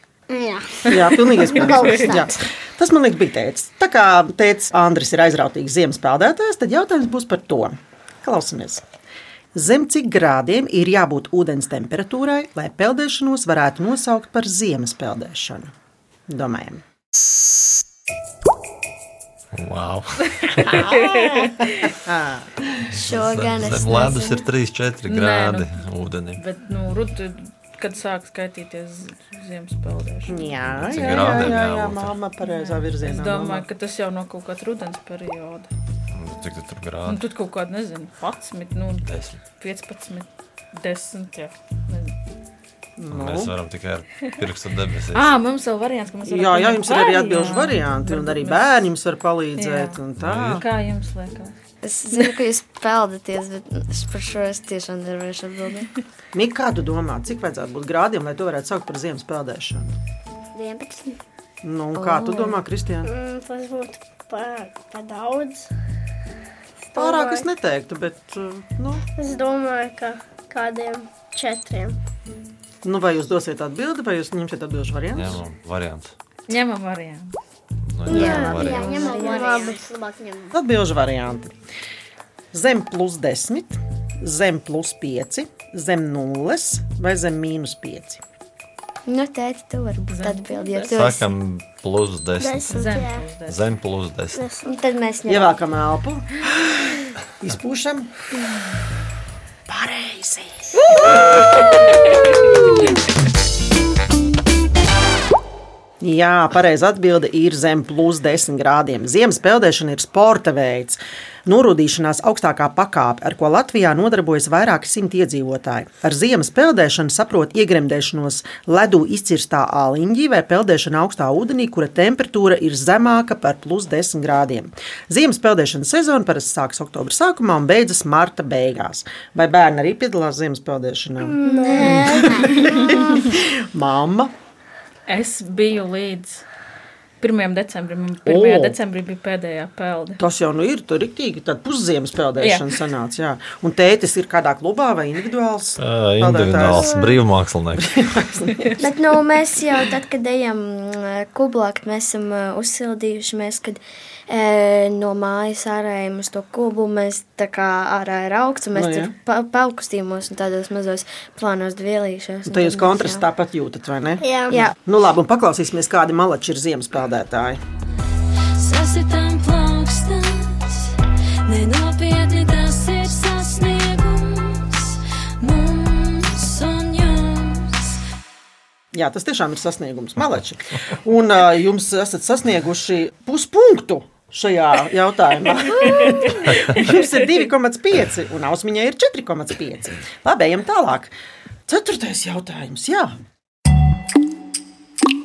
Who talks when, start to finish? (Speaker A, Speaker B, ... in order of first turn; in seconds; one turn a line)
Speaker A: 0.3-2.4
Speaker B: 0.8-8.8
Speaker C: 1.6-2.1
Speaker B: 9.5-15.7
Speaker B: 16.3-16.8
Speaker D: 19.5-20.9
Speaker C: 20.4-21.9
Speaker B: 21.9-22.6
Speaker E: 22.9-24.4
Speaker D: 23.1-26.4
Speaker C: 25.1-30.4
Speaker B: 30.3-33.7
Speaker D: 30.6-32.1
Speaker C: 31.0-31.6
Speaker C: 32.4-35.7
Speaker D: 36.1-37.2
Speaker C: 37.0-42.2
Speaker D: 39.0-39.4
Speaker B: 43.0-43.5
Speaker D: 43.1-45.3
Speaker C: 45.1-48.7
Speaker B: 46.2-50.6
Speaker C: 49.6-50.0
Speaker D: 50.2-50.6
Speaker C: 50.5-51.5
Speaker E: 51.8-55.9
Speaker B: 56.3-59.9
Speaker A: 60.5-61.2
Speaker B: 61.6-63.1
Speaker E: 62.0-62.6
Speaker F: 63.0-65.7
Speaker F: 66.9-67.4
Speaker B: 67.0-69.0
Speaker F: 69.2-72.0
Speaker B: 72.8-75.4
Speaker D: 75.1-76.1
Speaker C: 76.5-77.3
Speaker D: 77.8-78.9
Speaker E: 78.0-79.1
Speaker F: 78.1-79.8
Speaker A: 78.3-80.5
Speaker B: 80.5-81.5
Speaker B: 82.5-88.2
Speaker E: 89.1-91.3
Speaker C: 90.1-91.0
Speaker D: 90.9-92.9
Speaker F: 92.4-93.2
Speaker C: 92.7-93.6
Speaker D: 93.4-94.5
Speaker F: 94.3-94.7
Speaker E: 94.6-95.5
Speaker B: 95.3-98.1
Speaker B: 99.7-100.7
Speaker C: 100.9-101.8
Speaker B: 106.0-134.3
Speaker F: 131.2-133.2
Speaker E: 131.4-131.9
Speaker C: 135.1-136.4
Speaker C: 137.2-140.2
Speaker B: 138.2-138.8
Speaker B: 140.2-146.9
Speaker C: 142.4-142.7
Speaker D: 145.8-148.0
Speaker B: 147.8-148.7
Speaker E: 148.8-163.2
Speaker B: 158.7-159.1
Speaker B: 162.4-167.6
Speaker F: 164.2-164.5
Speaker E: 164.5-164.7
Speaker G: 168.6-170.9
Speaker G: 171.5-178.0
Speaker B: 178.9-191.1
Speaker B: 191.7-193.1